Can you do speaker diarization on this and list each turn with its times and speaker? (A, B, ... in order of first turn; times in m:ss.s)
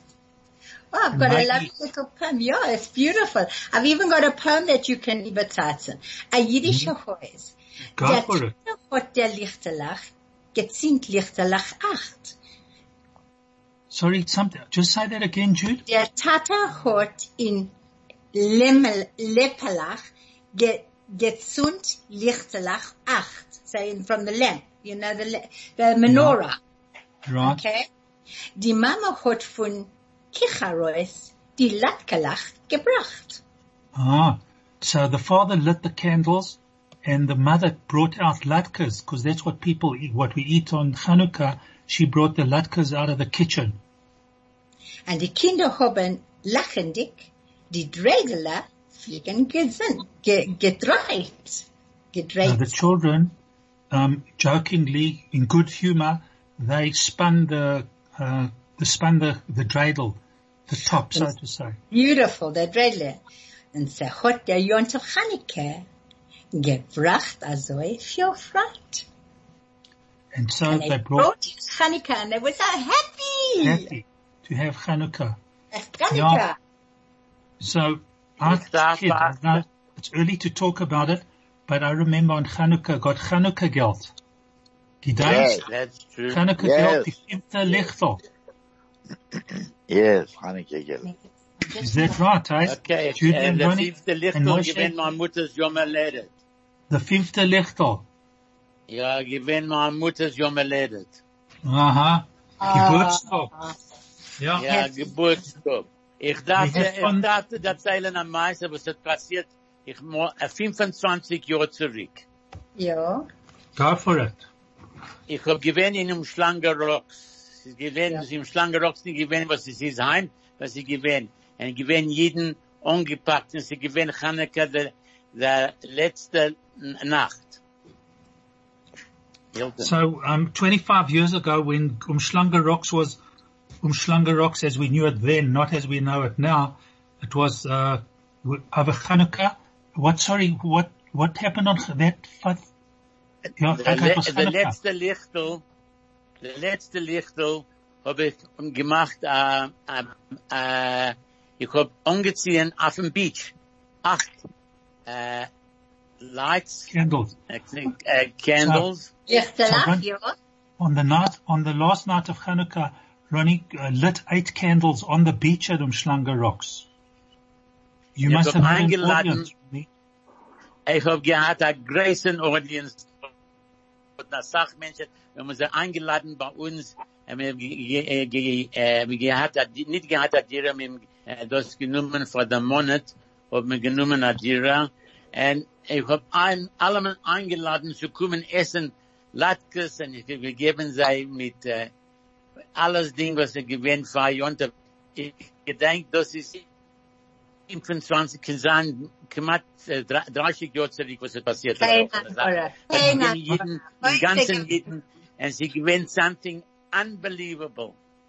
0:00.9-0:12.4 A
0:01.1-0:01.7 B
0:06.7-0:06.9 B
0:08.0-0:08.6 B
0:13.9-0:15.8 B
0:15.9-0:17.7 A
0:18.3-0:26.6 A
0:26.1-0:26.4 B
0:27.2-0:27.6 B
0:27.4-0:27.9 A
0:28.6-0:33.4 A
0:34.0-0:43.8 B
0:45.1-0:52.8 A
0:52.4-0:53.3 B
0:53.9-1:01.8 B
1:01.9-1:03.2 A
1:03.7-1:05.8 A
1:06.5-1:09.1 A
1:10.3-1:11.3 B
1:10.7-1:13.9 A
1:13.6-1:15.4 B
1:15.7-1:16.6 A
1:16.1-1:16.4 B
1:17.6-1:24.1 B
1:18.4-1:19.4 C
1:25.0-1:25.6 B
1:25.2-1:25.6 D
1:25.3-1:26.4 C
1:26.3-1:28.2 B
1:26.6-1:27.1 D
1:29.9-1:31.1 D
1:31.0-1:32.2 A
1:31.8-1:34.9 B
1:32.6-1:36.3 C
1:36.9-1:38.0 B
1:38.9-1:41.2 C
1:41.6-1:43.5 B
1:42.6-1:43.8 A
1:44.4-1:44.7 B
1:44.6-1:52.2 C
1:44.7-1:45.1 A
1:46.6-1:47.3 B
1:52.8-1:53.2 A
1:53.8-1:54.5 B
1:55.3-2:07.6 C
2:09.5-2:09.9 C
2:09.8-2:13.2 B
2:13.8-2:22.7 B
2:23.6-2:24.8 B
2:23.8-2:25.6 C
2:26.4-2:34.4 C
2:35.1-2:35.5 C
2:36.2-2:36.9 C
2:36.9-2:37.4 B
2:37.5-2:39.1 C
2:38.6-2:40.0 B
2:39.3-2:40.4 A
2:40.8-2:46.9 B
2:48.2-2:49.9 B
2:48.3-2:49.5 C
2:50.9-2:53.3 C
2:54.2-3:11.9 C
3:12.8-3:16.6 C
3:17.7-3:28.0 C
3:21.8-3:24.7 A
3:22.9-3:23.6 B